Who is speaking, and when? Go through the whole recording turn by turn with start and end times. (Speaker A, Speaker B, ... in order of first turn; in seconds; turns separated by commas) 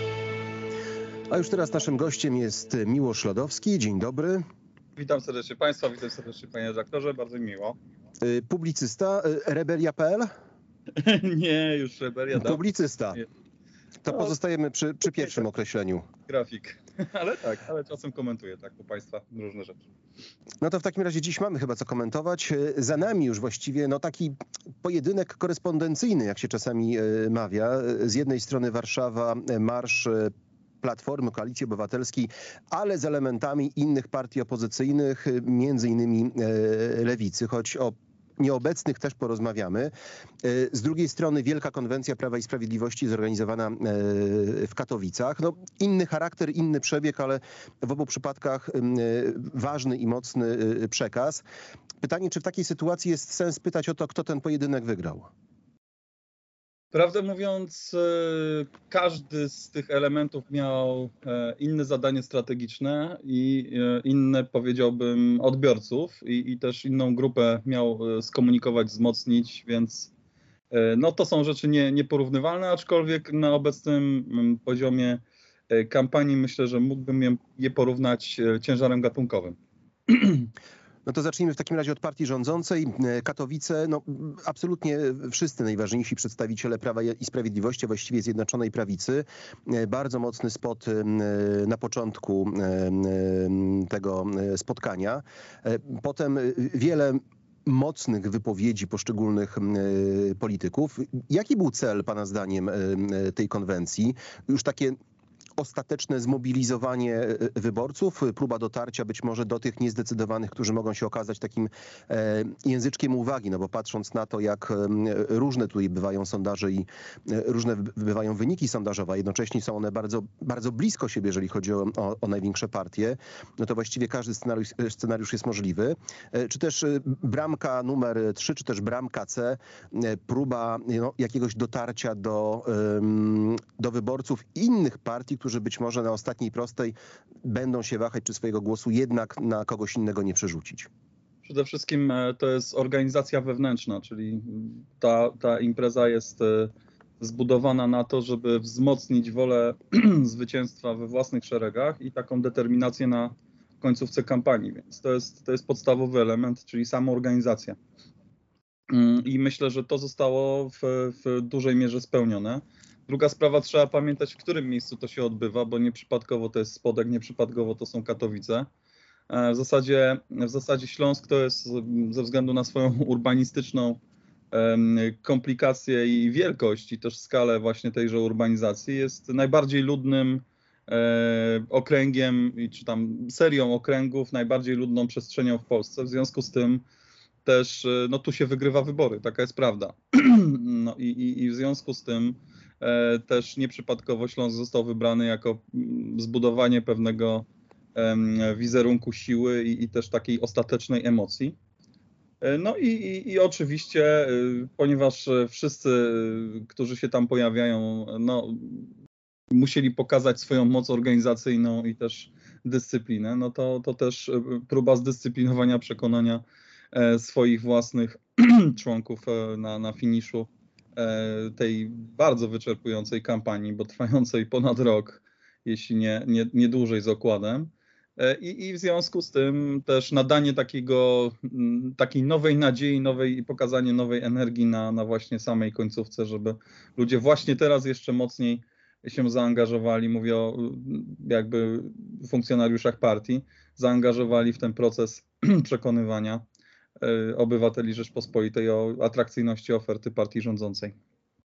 Speaker A: 1.3-4.4, Speaker B: 5.0-7.8, Speaker A: 8.2-10.3, Speaker B: 11.0-12.6, Speaker A: 12.3-13.2, Speaker A: 14.0-16.1, Speaker B: 16.3-19.8, Speaker A: 20.6-51.4, Speaker A: 52.0-55.3, Speaker B: 56.9-70.1, Speaker B: 70.7-79.6, Speaker B: 80.1-80.5, Speaker A: 81.0-105.0, Speaker A: 105.6-140.9, Speaker B: 141.4-157.8, Speaker B: 158.9-168.7, Speaker B: 169.3-174.0, Speaker B: 174.5-186.8, Speaker B: 187.4-201.6, Speaker B: 202.4-208.9, Speaker B: 209.5-246.4, Speaker B: 247.0-250.9